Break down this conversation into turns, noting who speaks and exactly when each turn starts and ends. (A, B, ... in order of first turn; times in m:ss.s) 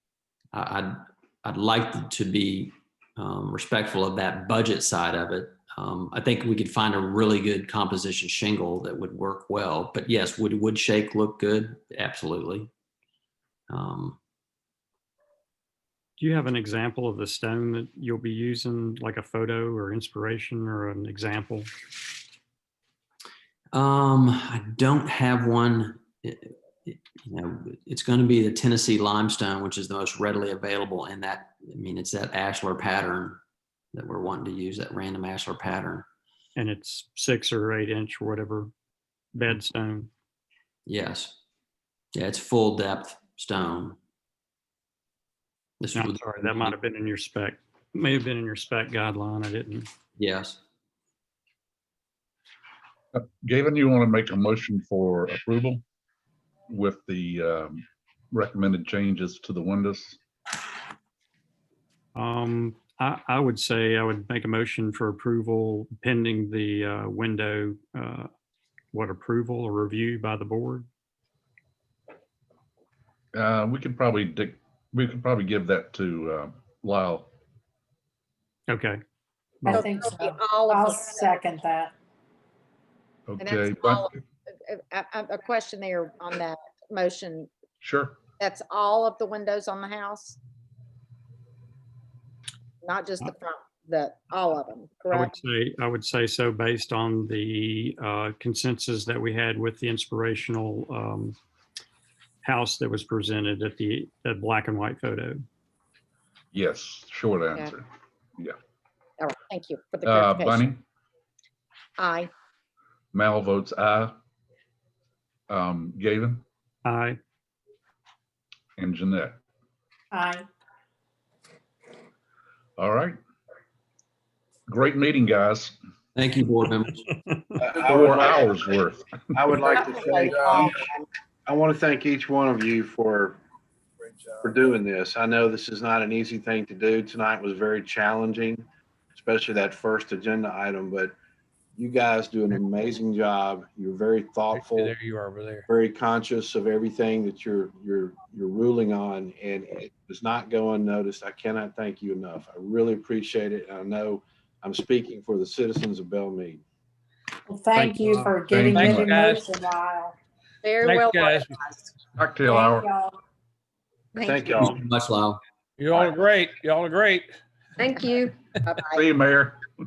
0:00.5-0:12.7 A
0:13.7-0:14.2 A
0:16.2-0:21.7 B
0:23.7-0:33.4 A
0:33.9-0:36.0 A
0:36.6-0:38.7 B
0:39.3-0:40.1 B
0:40.9-0:41.4 A
0:42.1-0:44.0 A
0:45.8-0:46.7 A
0:45.9-0:49.9 B
0:50.2-0:50.6 A
0:53.1-0:55.8 C
0:56.7-1:00.2 C
1:02.1-1:08.3 B
1:08.9-1:10.9 B
1:13.3-1:17.3 C
1:18.7-1:19.0 B
1:19.6-1:19.9 B
1:19.7-1:21.4 D
1:19.7-1:21.9 E
1:23.3-1:24.1 C
1:23.4-1:27.5 D
1:27.8-1:28.2 C
1:28.4-1:30.4 D
1:32.8-1:35.3 D
1:35.1-1:41.4 B
1:42.4-1:45.4 B
1:46.5-1:47.9 C
1:49.2-1:50.6 D
1:50.0-1:50.8 C
1:52.0-1:52.3 D
1:53.1-1:54.2 C
1:55.5-1:56.4 C
1:56.8-1:57.2 B
1:58.8-1:59.4 C
2:00.1-2:00.5 E
2:02.8-2:03.2 C
2:04.7-2:05.8 C
2:06.1-2:07.1 A
2:07.1-2:07.6 B
2:07.6-2:08.6 F
2:07.7-2:09.5 C
2:09.3-2:10.9 F
2:09.8-2:11.0 D
2:11.4-2:13.4 F
2:14.4-2:21.2 F
2:21.8-2:25.0 F
2:24.5-2:25.7 G
2:25.7-2:36.6 F
2:37.5-2:40.2 E
2:37.7-2:39.2 B
2:38.5-2:39.3 C
2:38.8-2:39.5 G
2:40.6-2:41.8 D
2:40.8-2:41.6 G
2:42.2-2:42.9 C
2:42.5-2:43.1 E
2:44.1-2:44.5 D
2:44.2-2:44.7 F
2:44.6-2:45.4 A
2:45.8-2:47.4 G
2:47.9-2:49.0 D
2:48.9-2:49.6 C